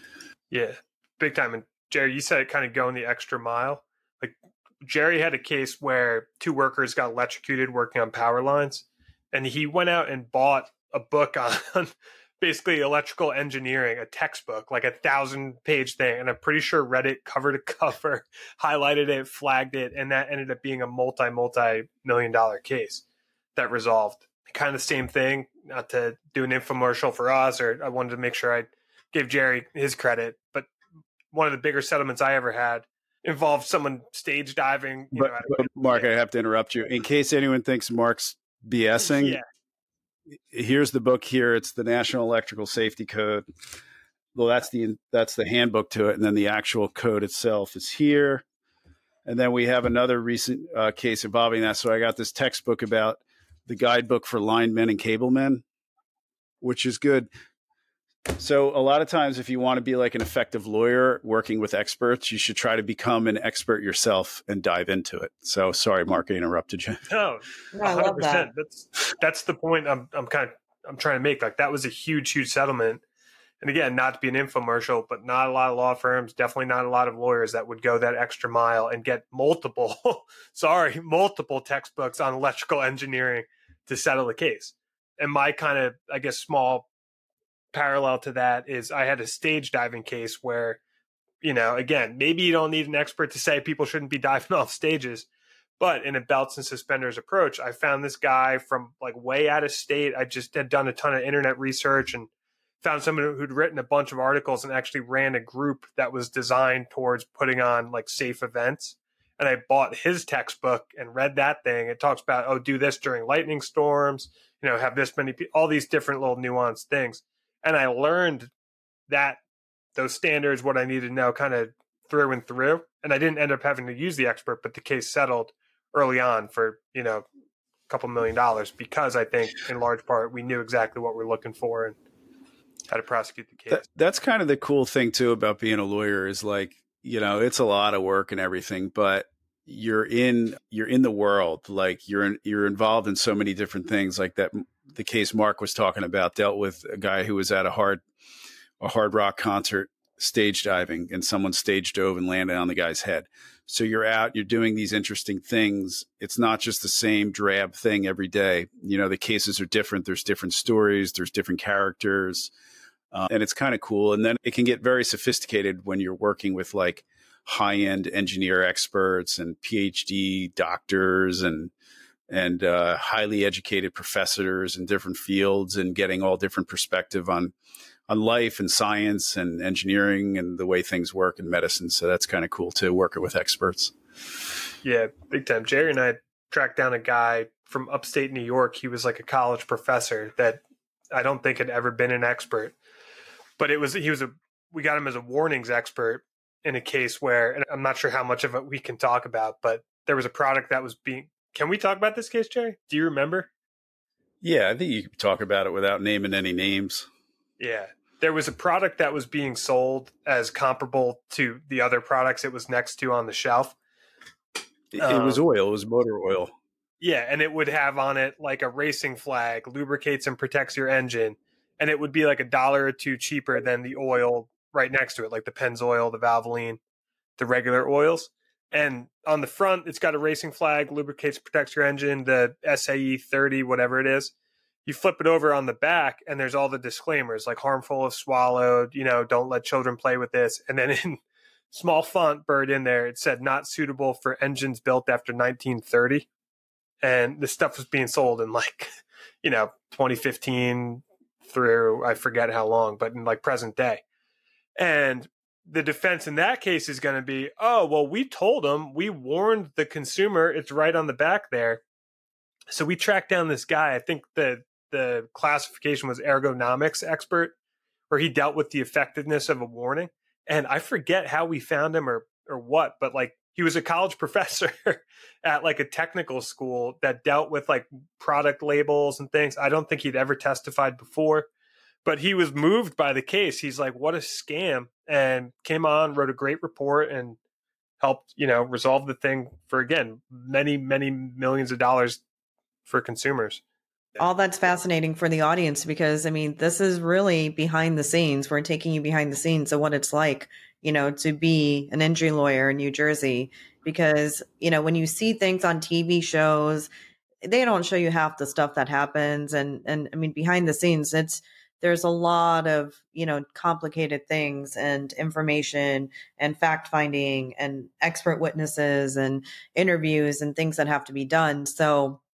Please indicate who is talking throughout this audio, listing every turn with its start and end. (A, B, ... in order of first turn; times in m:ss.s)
0:00.5-0:23.0 A
0:23.6-0:30.7 A
0:31.3-0:36.1 A
0:35.1-0:39.4 B
0:39.0-0:39.4 A
0:40.5-0:43.4 B
0:44.4-0:48.4 B
0:49.3-0:55.6 B
0:56.6-0:57.3 B
0:58.4-1:07.0 B
1:07.1-1:13.0 A
1:07.7-1:08.5 C
1:13.6-1:26.9 A
1:27.7-1:30.8 A
1:31.4-1:35.3 A
1:35.8-1:42.3 A
1:42.8-1:58.5 A
1:59.1-1:59.4 A
2:00.0-2:07.2 A
2:07.9-2:12.0 A
2:12.9-2:13.8 A
2:13.7-2:28.0 B
2:28.8-2:42.5 B
2:43.1-2:51.7 B
2:52.3-2:57.5 B
2:58.1-3:03.9 B
3:04.8-3:12.8 A
3:13.6-3:23.5 A
3:24.4-3:27.1 B
3:27.6-3:33.8 A
3:34.9-3:36.5 B
3:35.0-3:35.4 A
3:37.0-3:46.8 A
3:47.4-3:54.3 A
3:54.8-4:01.2 A
4:01.7-4:06.3 A
4:07.0-4:08.9 A
4:09.4-4:14.0 A
4:14.8-4:21.8 A
4:22.7-4:27.5 A
4:28.1-4:41.5 A
4:42.0-4:47.4 A
4:48.0-4:52.2 A
4:52.9-4:53.6 A
4:54.2-5:06.9 C
5:07.4-5:22.2 C